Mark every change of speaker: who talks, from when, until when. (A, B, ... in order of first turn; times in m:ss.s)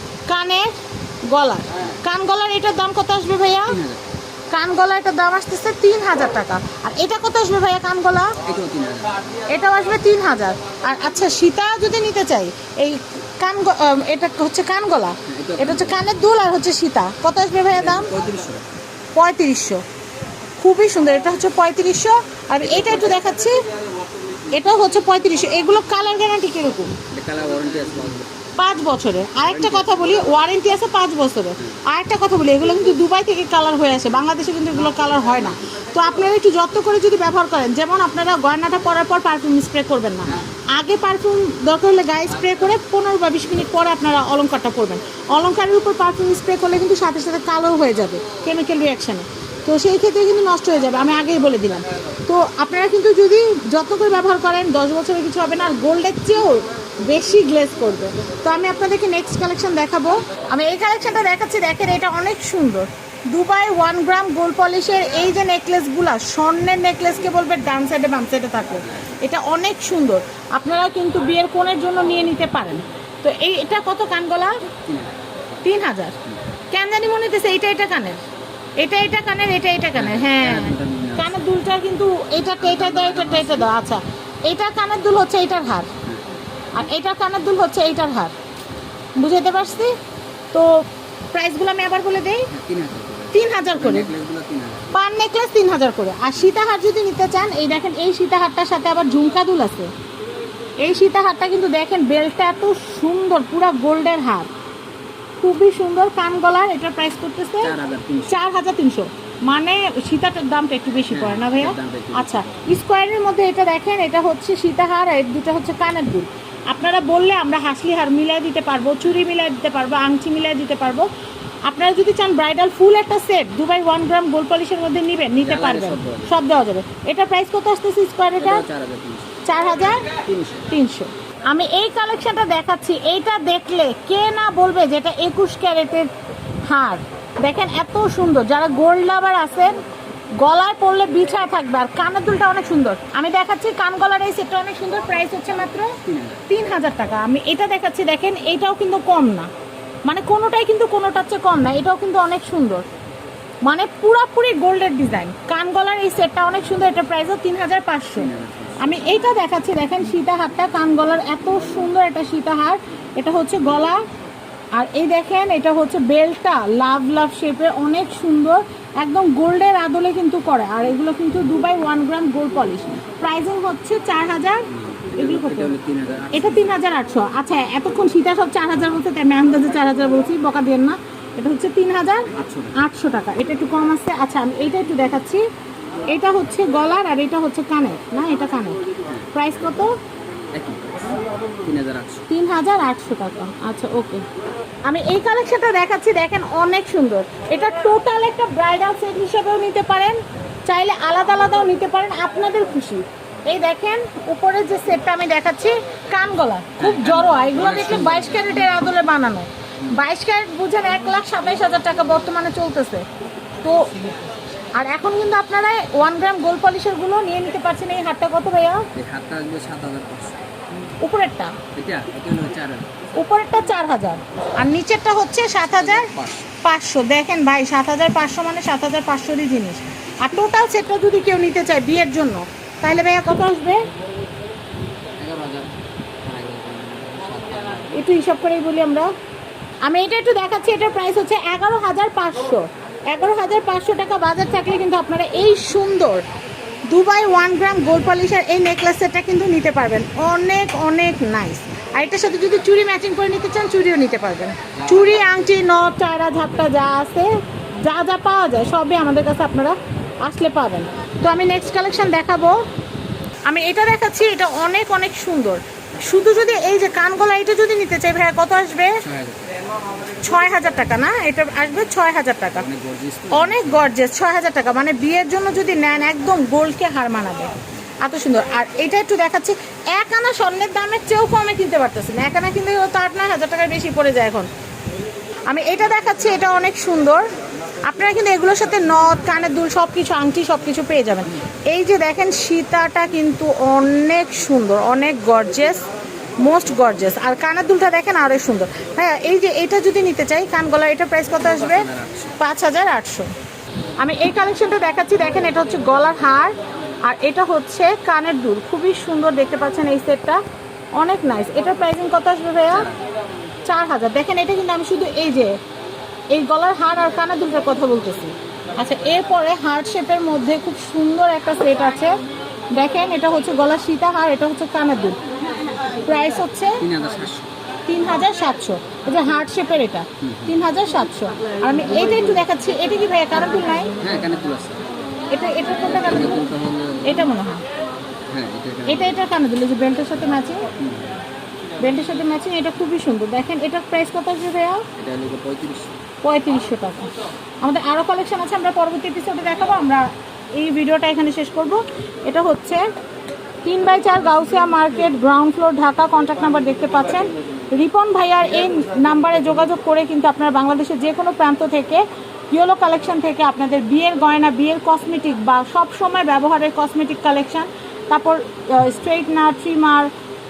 0:00.3-0:00.7 A
0:01.3-0:03.8 A
0:03.7-0:04.0 B
0:04.5-0:08.4 A
0:08.4-0:09.3 B
0:09.5-0:18.1 A
0:15.3-0:16.0 B
0:17.7-0:18.6 B
0:19.1-0:19.8 A
0:20.6-0:23.6 A
0:24.5-0:27.0 A
0:27.1-0:28.3 B
0:28.6-1:14.6 A
0:29.5-0:30.0 B
1:14.8-1:15.1 B
1:15.6-1:16.2 A
1:16.7-1:18.2 A
1:18.8-1:25.9 A
1:19.9-1:21.4 B
1:22.6-1:23.7 B
1:26.7-1:28.3 A
1:29.2-1:30.0 A
1:30.5-1:32.5 A
1:32.5-1:34.9 B
1:33.3-1:34.1 A
1:34.9-1:39.9 A
1:40.8-1:44.5 A
1:45.4-1:47.8 A
1:47.6-1:48.4 B
1:48.3-2:01.1 A
1:51.1-1:52.4 B
2:01.6-2:08.6 A
2:05.4-2:06.3 B
2:08.4-2:09.4 B
2:09.4-2:10.1 A
2:10.1-2:10.7 B
2:10.7-2:16.1 A
2:16.7-2:19.8 A
2:20.4-2:29.5 A
2:26.0-2:26.4 B
2:30.0-2:32.8 A
2:33.6-2:44.0 A
2:38.2-2:39.2 B
2:44.7-2:55.8 A
2:54.7-2:56.8 B
2:56.3-3:05.4 A
3:02.3-3:02.8 B
3:06.1-3:10.0 A
3:10.5-3:12.3 B
3:12.3-3:14.2 A
3:14.8-3:33.0 A
3:26.8-3:28.9 B
3:33.6-3:33.9 A
3:34.8-3:38.9 A
3:38.9-3:40.4 B
3:41.0-3:41.6 A
3:41.7-3:42.9 B
3:43.1-3:46.1 A
3:45.6-3:46.5 B
3:46.6-3:53.8 A
3:55.2-3:58.0 B
3:57.9-3:59.1 A
3:59.8-4:06.2 A
4:06.9-4:17.3 A
4:14.8-4:15.3 B
4:17.8-4:22.6 A
4:23.5-4:29.1 A
4:29.0-4:29.6 B
4:30.2-4:32.7 A
4:32.6-4:33.9 B
4:33.3-4:44.5 A
4:45.5-4:47.2 A
4:47.8-4:55.9 A
4:56.4-5:03.3 A
5:01.4-5:02.4 B
5:04.0-5:10.4 A
5:11.0-5:12.9 A
5:12.7-5:13.0 B
5:13.6-5:15.6 A
5:16.3-5:22.2 A
5:22.7-5:25.2 A
5:26.0-5:26.8 A
5:26.8-5:27.5 B
5:27.9-5:33.9 A
5:30.2-5:30.6 B
5:34.0-5:34.8 B
5:35.3-5:36.4 A
5:35.9-5:37.3 B
5:37.0-5:37.6 A
5:38.3-5:39.2 B
5:38.9-5:40.6 A
5:40.8-5:41.2 B
5:41.8-5:44.9 A
5:45.0-5:45.9 B
5:46.2-5:52.8 A
5:53.6-6:10.1 A